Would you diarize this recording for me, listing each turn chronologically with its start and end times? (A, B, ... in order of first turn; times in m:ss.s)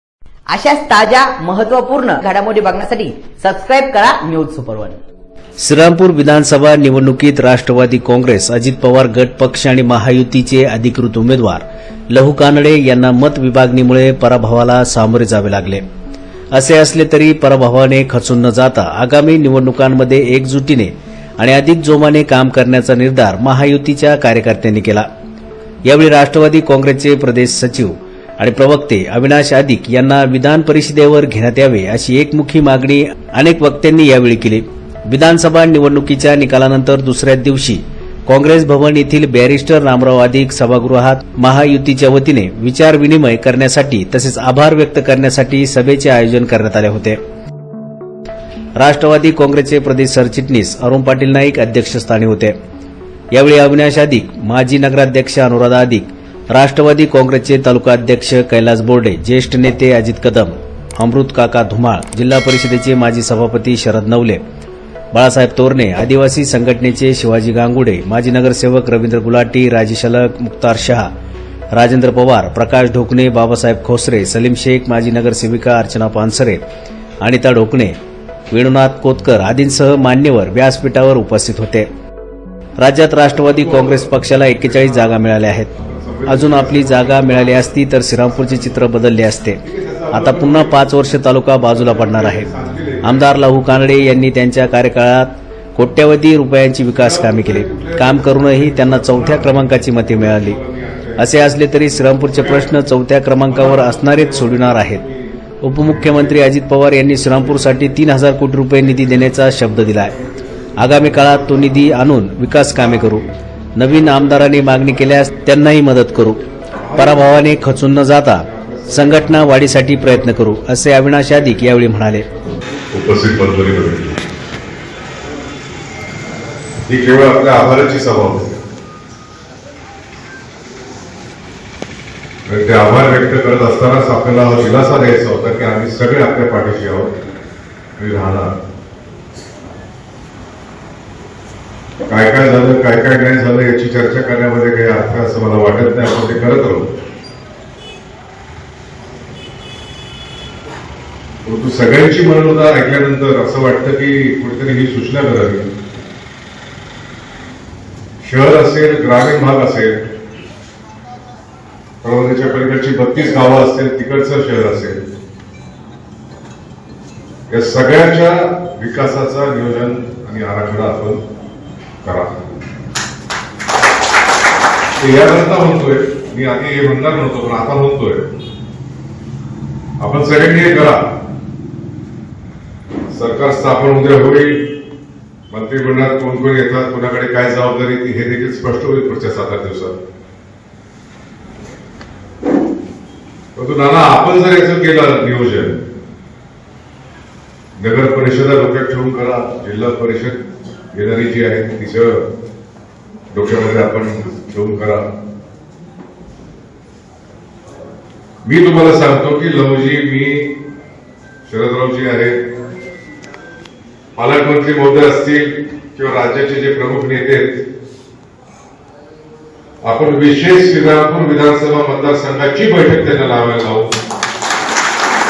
0:00.5-0:05.0 A
0:05.6-0:15.8 B
0:16.5-0:25.1 B
0:25.8-0:47.2 B
0:48.8-0:52.5 B
0:53.3-1:04.4 B
1:05.1-1:11.1 B
1:11.7-1:16.6 B
1:17.2-1:18.0 B
1:18.5-1:21.9 B
1:22.8-1:25.7 B
1:23.3-1:28.8 C
1:26.3-1:29.6 B
1:29.6-1:31.0 C
1:30.1-1:32.5 B
1:31.6-1:33.9 C
1:33.0-1:40.6 B
1:36.9-1:41.3 C
1:41.2-1:45.0 B
1:42.2-1:42.7 C
1:43.5-1:45.3 C
1:45.6-1:50.1 B
1:45.8-1:46.4 C
1:47.1-1:48.0 C
1:48.9-1:52.0 C
1:50.8-1:53.2 B
1:52.5-1:53.3 C
1:53.8-1:56.4 B
1:53.9-1:55.5 C
1:56.7-1:57.7 C
1:56.9-2:02.3 B
1:58.4-2:00.3 C
2:02.3-2:04.2 C
2:06.9-2:08.6 C
2:12.4-2:17.1 C
2:18.0-2:18.5 C
2:22.1-2:26.9 C
2:31.4-2:35.7 C
2:38.2-2:40.0 C
2:42.0-2:45.0 C
2:47.5-2:51.2 C
2:52.0-2:52.4 C
2:55.0-2:58.3 C
3:00.0-3:01.0 C
3:03.1-3:04.6 C
3:05.5-3:10.0 C
3:13.6-3:15.8 C
3:17.8-3:22.2 C
3:23.3-3:25.0 C
3:28.4-3:30.5 C
3:31.4-3:32.4 C
3:34.2-3:37.5 C
3:39.8-3:43.9 C